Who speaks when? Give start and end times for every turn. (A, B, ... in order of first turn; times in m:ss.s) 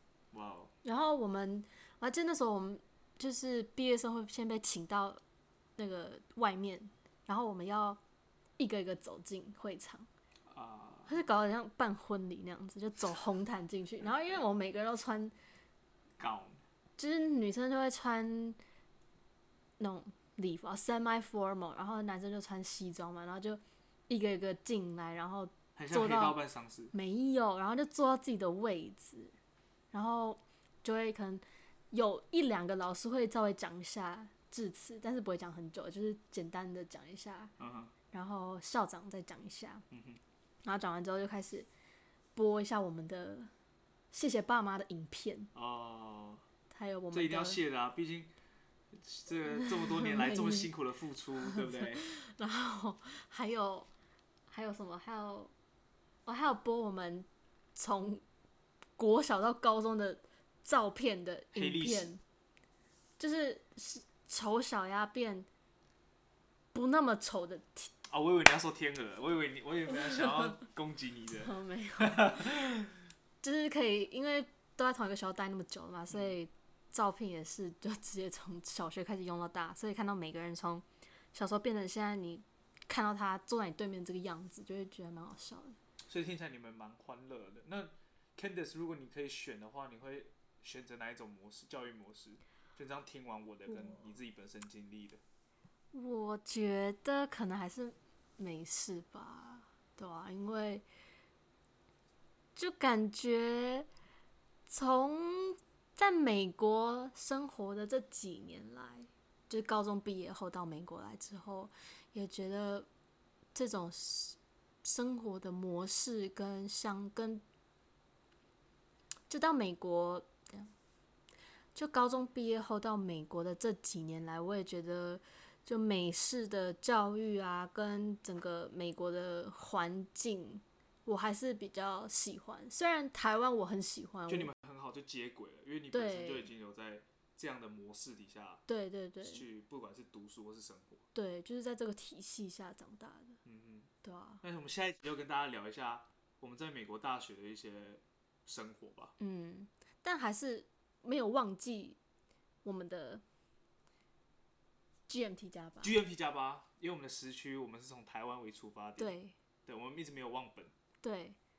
0:00.3-0:00.7 A
0:00.8-0:05.2 B
0:05.8-0:08.0 B
0:08.6-0:10.1 B
0:10.5-0:11.1 A
0:11.1-0:15.3 B
0:16.2-0:16.6 A
0:17.0-0:18.6 B
0:19.8-0:26.4 B
0:25.8-0:26.9 A
0:26.9-0:29.3 B
0:29.9-0:37.5 B
0:37.6-0:37.9 A
0:38.1-0:39.8 B
0:39.9-0:40.2 A
0:40.6-0:41.7 B
0:42.4-0:43.5 B
0:44.1-0:45.5 B
0:45.6-0:46.4 A
0:46.7-0:47.6 B
0:47.1-0:48.3 A
0:48.9-0:52.1 A
0:49.5-0:50.7 B
0:51.5-0:53.9 B
0:54.5-0:55.5 B
0:56.3-0:58.2 B
0:59.0-1:02.2 B
1:01.5-1:02.1 A
1:03.2-1:05.5 B
1:06.7-1:07.9 B
1:08.1-1:13.0 A
1:11.4-1:12.7 B
1:13.4-1:25.8 B
1:26.1-1:35.2 A
1:35.9-1:40.8 B
1:42.6-1:43.9 B
1:44.7-1:52.9 B
1:53.5-1:57.4 B
1:59.3-2:00.7 B
2:01.8-2:14.5 B
2:14.3-2:18.6 A
2:15.9-2:16.5 B
2:18.7-2:19.4 B
2:19.2-2:21.1 A
2:21.2-2:23.4 B
2:23.4-2:23.9 A
2:24.0-2:24.4 B
2:24.4-2:29.2 A
2:29.2-2:32.0 B
2:32.6-2:33.2 B
2:35.1-2:36.0 B
2:35.8-2:39.1 A
2:39.0-2:39.4 B
2:39.7-2:40.7 A
2:41.0-2:41.4 B